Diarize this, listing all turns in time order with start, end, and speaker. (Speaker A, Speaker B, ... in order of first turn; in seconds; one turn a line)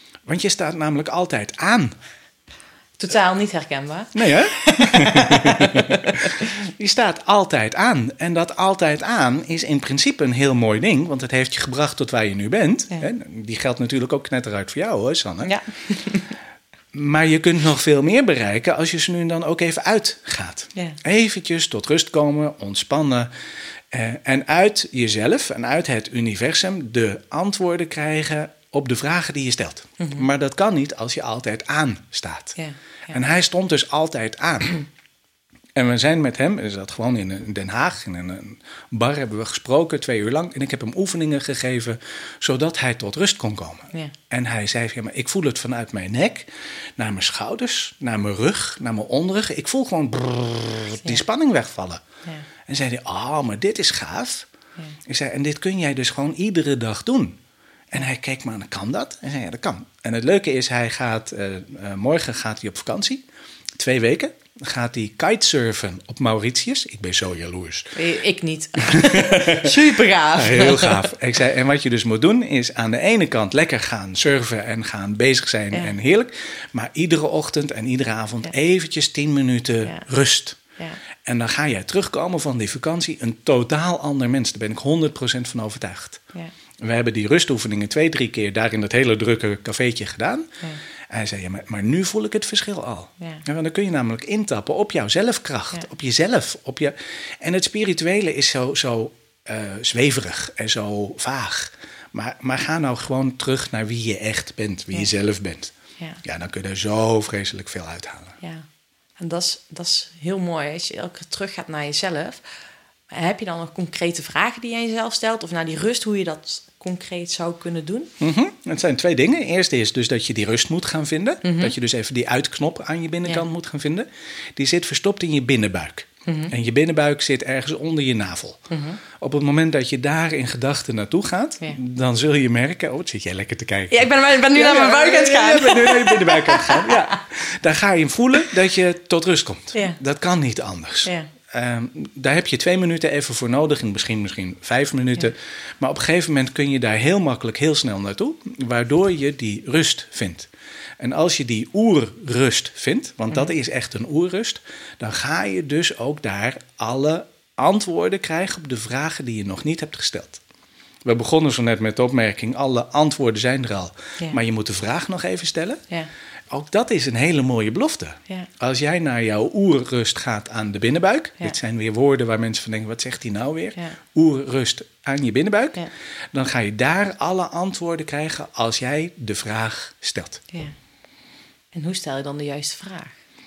Speaker A: 0.3-2.0
Speaker B: 3.0-6.5
Speaker A: 4.1-15.5
Speaker B: 15.4-16.3
Speaker A: 16.9-23.3
Speaker A: 23.9-32.6
Speaker B: 30.0-30.3
Speaker B: 32.6-33.2
Speaker A: 33.1-34.8
Speaker A: 35.8-52.0
Speaker A: 52.7-54.5
Speaker A: 55.1-57.4
Speaker A: 57.9-63.2
Speaker A: 63.8-68.0
Speaker B: 68.0-71.1
Speaker A: 68.8-69.8
Speaker A: 70.4-80.6
Speaker A: 81.2-86.2
Speaker A: 86.8-90.5
Speaker A: 91.1-108.4
Speaker B: 109.2-112.4
Speaker B: 113.1-118.1
Speaker A: 118.2-160.4
Speaker B: 121.4-121.7
Speaker B: 126.3-126.5
Speaker B: 128.7-129.0
Speaker B: 133.9-137.2
Speaker A: 161.1-165.8
Speaker A: 166.5-180.4
Speaker B: 181.7-183.1